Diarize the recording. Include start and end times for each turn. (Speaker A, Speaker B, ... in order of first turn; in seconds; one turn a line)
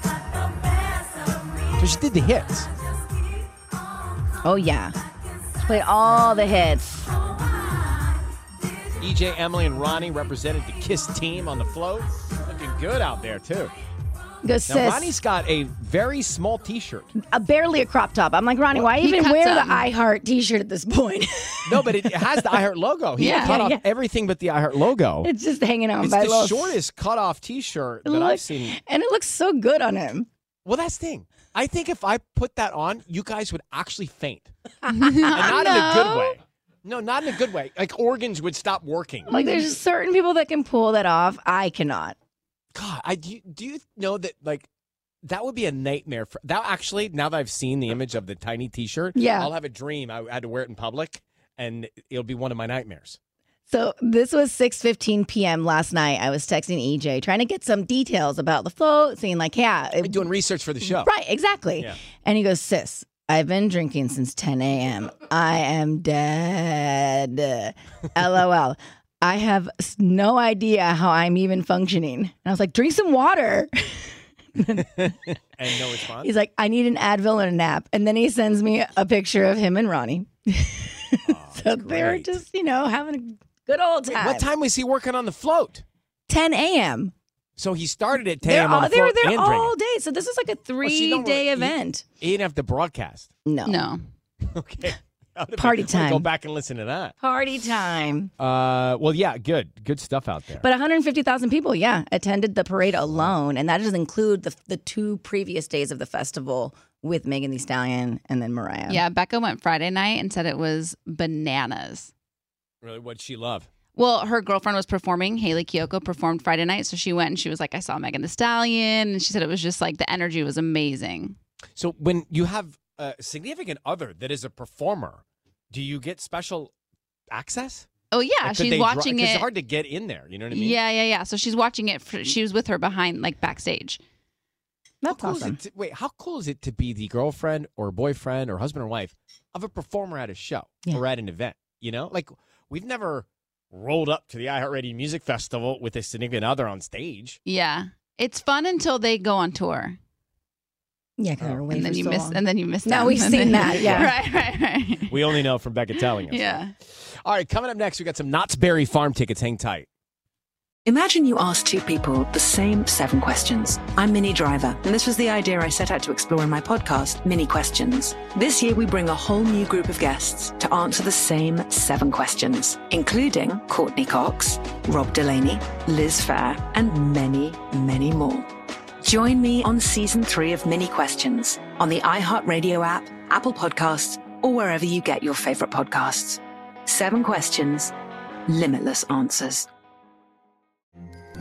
Speaker A: 1.8-2.7
Speaker B: 4.4-4.9
Speaker B: 5.6-7.1
Speaker A: 9.0-13.7
Speaker B: 14.4-15.2
Speaker A: 14.7-17.1
Speaker B: 17.2-22.7
Speaker A: 18.7-19.1
Speaker C: 19.1-19.9
Speaker A: 21.7-25.3
Speaker B: 23.2-23.8
Speaker C: 23.2-23.5
Speaker B: 25.2-26.8
Speaker A: 26.0-28.8
Speaker B: 28.1-30.3
Speaker A: 30.6-34.5
Speaker B: 34.9-36.3
Speaker C: 35.0-36.2
Speaker A: 35.2-39.4
Speaker B: 39.3-42.1
Speaker A: 42.7-44.7
Speaker A: 45.2-53.2
Speaker B: 49.1-49.5
Speaker B: 53.7-60.3
Speaker A: 60.0-61.1
Speaker B: 60.8-75.1
Speaker A: 74.9-76.4
Speaker B: 76.2-84.5
Speaker A: 81.3-82.4
Speaker A: 84.1-85.8
Speaker B: 86.3-87.1
Speaker A: 87.6-89.8
Speaker B: 88.4-92.0
Speaker A: 90.8-93.3
Speaker B: 93.5-93.9
Speaker C: 93.7-94.0
Speaker A: 94.5-97.1
Speaker B: 95.6-96.3
Speaker B: 97.2-98.3
Speaker A: 98.4-100.7
Speaker B: 100.6-109.1
Speaker C: 108.9-112.1
Speaker A: 112.8-113.7
Speaker C: 113.9-121.4
Speaker A: 121.8-126.7
Speaker A: 127.3-127.9
Speaker C: 128.1-129.5
Speaker A: 128.4-130.9
Speaker C: 130.5-134.0
Speaker B: 135.0-135.6
Speaker A: 135.0-147.4
Speaker C: 147.5-150.0
Speaker B: 151.2-154.1
Speaker A: 151.4-151.7
Speaker C: 151.7-155.2
Speaker A: 153.8-154.2
Speaker A: 155.0-156.7
Speaker C: 156.0-156.7
Speaker A: 157.2-159.9
Speaker D: 160.8-178.5
Speaker D: 179.0-187.9
Speaker D: 188.5-189.7